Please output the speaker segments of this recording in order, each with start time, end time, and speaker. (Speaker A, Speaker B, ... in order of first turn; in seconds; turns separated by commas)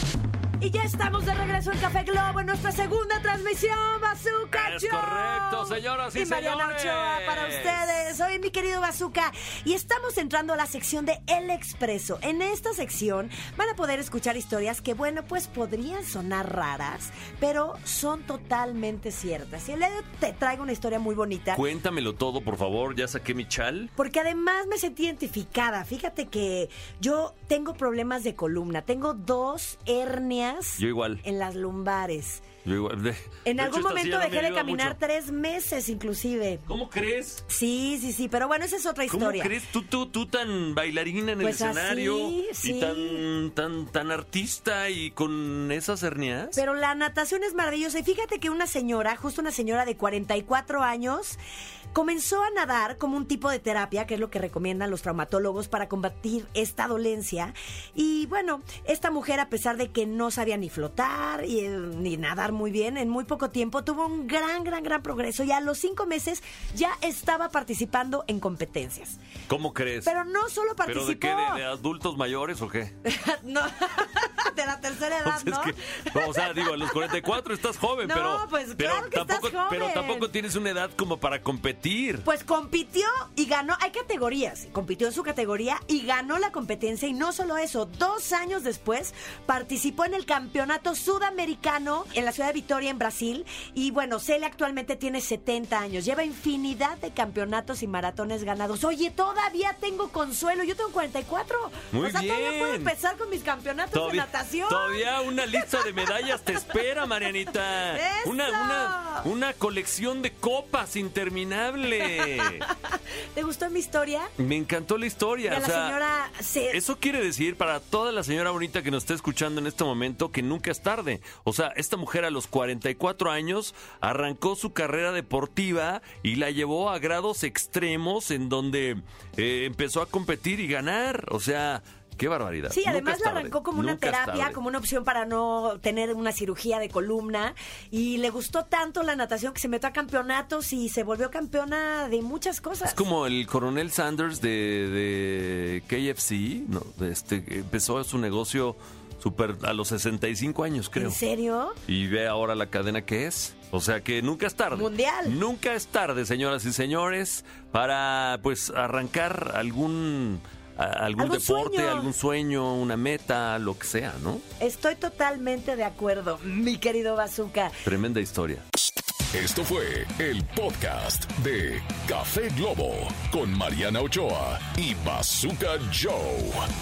Speaker A: 0.6-21.6, Speaker B: 4.5-7.8, Speaker B: 21.5-23.9, Speaker A: 24.0-32.4, Speaker B: 30.8-31.2, Speaker B: 32.6-35.0, Speaker A: 33.4-36.7, Speaker B: 36.7-37.4, Speaker A: 37.5-39.5, Speaker B: 39.1-46.6, Speaker A: 41.4-43.2, Speaker A: 46.5-51.4, Speaker A: 51.9-69.2, Speaker B: 69.5-70.1, Speaker A: 70.0-71.6, Speaker B: 70.8-72.9, Speaker A: 73.0-77.0, Speaker B: 75.2-82.2, Speaker A: 78.0-80.3, Speaker A: 82.2-106.4, Speaker B: 101.9-102.9, Speaker B: 103.9-112.6, Speaker A: 107.8-109.3, Speaker A: 112.0-114.3, Speaker B: 114.4-116.0, Speaker A: 115.4-116.8, Speaker B: 116.7-134.6, Speaker A: 132.7-143.1, Speaker B: 142.8-151.2, Speaker A: 150.9-151.8, Speaker B: 151.9-164.4, Speaker A: 154.7-155.4, Speaker A: 161.2-162.1, Speaker A: 164.6-167.8, Speaker B: 167.8-168.6, Speaker C: 169.3-176.7